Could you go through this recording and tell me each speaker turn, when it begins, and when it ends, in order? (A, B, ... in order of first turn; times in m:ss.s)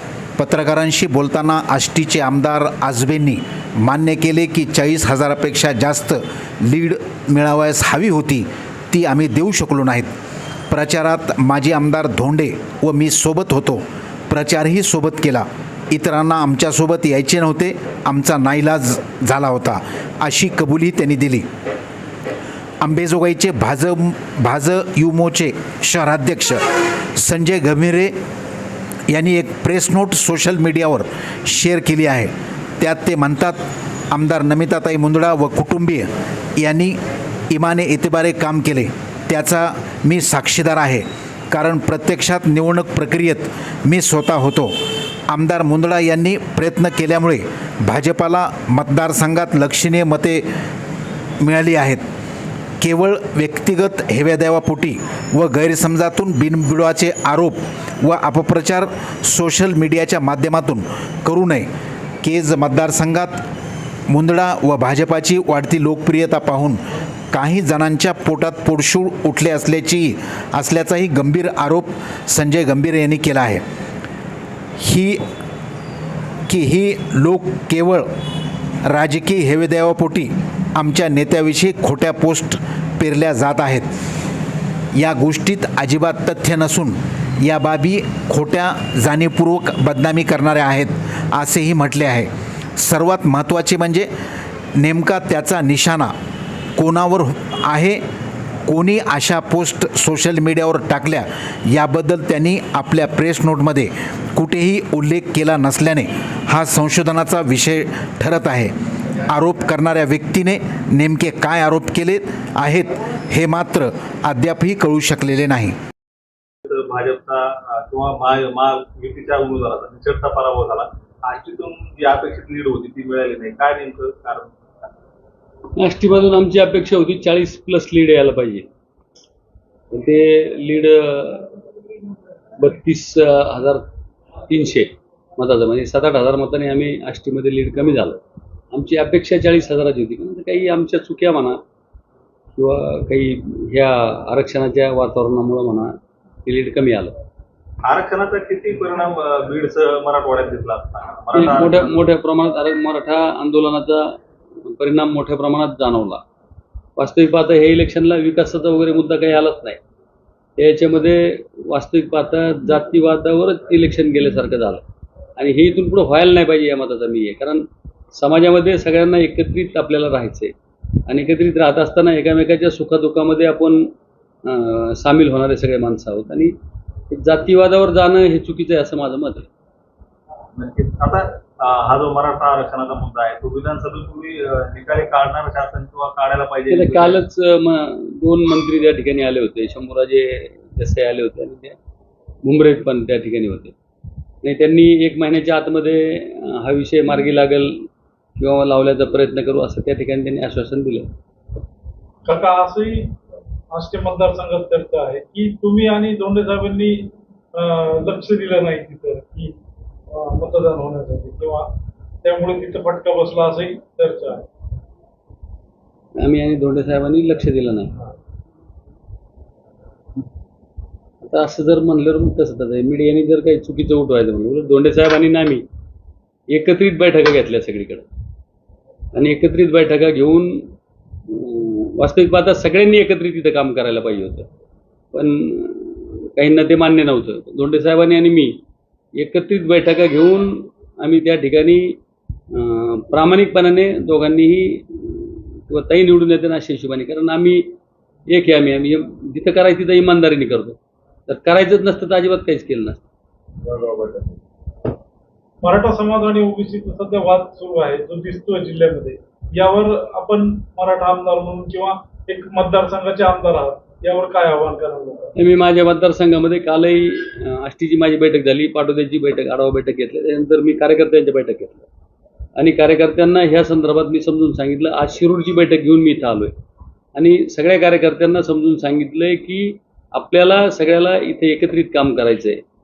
0:00.4-0:10.1 A
0:10.7-0:21.5 A
0:22.8-0:28.2 A
0:29.1-0:33.6 A
0:34.1-0:37.0 A
0:37.5-0:44.7 A
0:45.3-0:50.4 A
0:51.4-0:52.0 A
0:52.8-1:01.7 A
1:02.2-1:03.4 A
1:04.1-1:06.8 A
1:07.3-1:13.6 A
1:14.8-1:15.2 A
1:16.5-1:18.1 A
1:18.8-1:23.9 A
1:24.9-1:34.1 A
1:34.8-1:36.1 A
1:36.8-1:38.0 A
1:38.7-1:55.8 A
1:56.6-2:04.6 B
2:05.8-2:08.7 C
2:09.9-2:11.6 C
2:12.6-2:13.9 C
2:14.5-2:18.2 C
2:18.7-2:21.6 C
2:22.6-2:25.9 C
2:26.4-2:27.2 C
2:27.8-2:32.0 B
2:31.3-2:36.2 C
2:37.0-2:39.8 C
2:40.6-2:44.8 C
2:45.4-2:50.5 C
2:51.0-2:53.9 C
2:54.4-2:56.6 C
2:57.1-2:59.5 C
3:00.6-3:07.2 B
3:06.7-3:11.8 C
3:12.4-3:13.8 C
3:14.4-3:21.1 C
3:22.2-3:23.1 D
3:23.7-3:29.5 D
3:30.1-3:31.7 D
3:32.2-3:34.5 D
3:36.2-3:38.0 C
3:41.2-3:45.6 C
3:46.5-3:48.0 C
3:49.1-3:50.7 C
3:51.3-3:54.5 C
3:55.1-3:58.6 C
3:59.2-4:02.0 C
4:02.5-4:07.7 C
4:08.3-4:13.0 C
4:15.6-4:25.3 D
4:25.4-4:31.9 C
4:32.6-4:36.6 C
4:37.2-4:42.6 C